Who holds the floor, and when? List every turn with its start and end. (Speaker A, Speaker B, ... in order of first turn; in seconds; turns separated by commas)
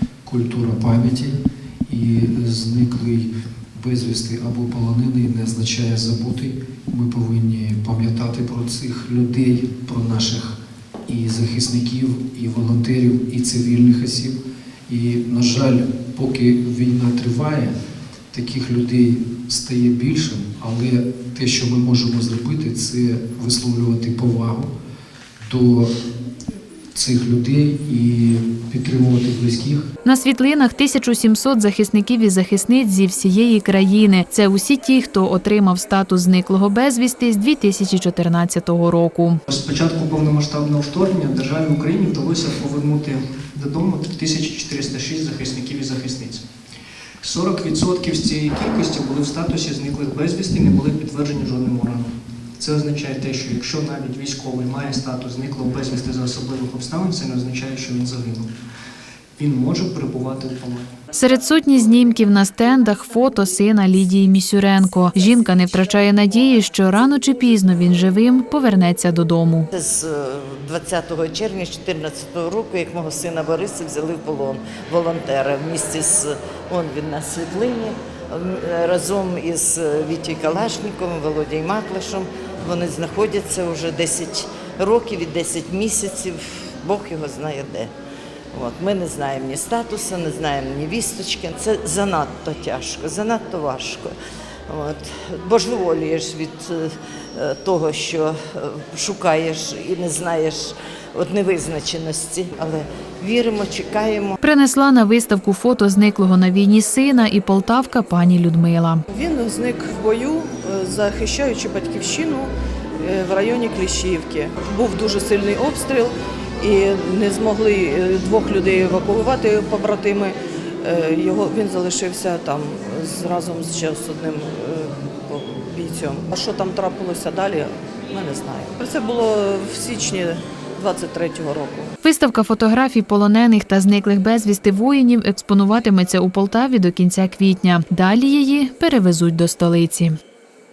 Speaker A: 0.2-14.4, Speaker A: 14.9-17.7, Speaker A: 18.3-24.7, Speaker A: 25.4-25.9, Speaker A: 26.9-29.9, Speaker B: 30.0-39.4, Speaker C: 39.5-46.4, Speaker C: 47.2-58.5, Speaker C: 59.4-60.9, Speaker B: 61.1-69.7, Speaker D: 69.7-87.9, Speaker D: 88.5-94.1, Speaker D: 94.7-104.4, Speaker B: 104.4-109.0, Speaker E: 109.1-112.5, Speaker E: 113.0-131.9, Speaker B: 132.0-140.2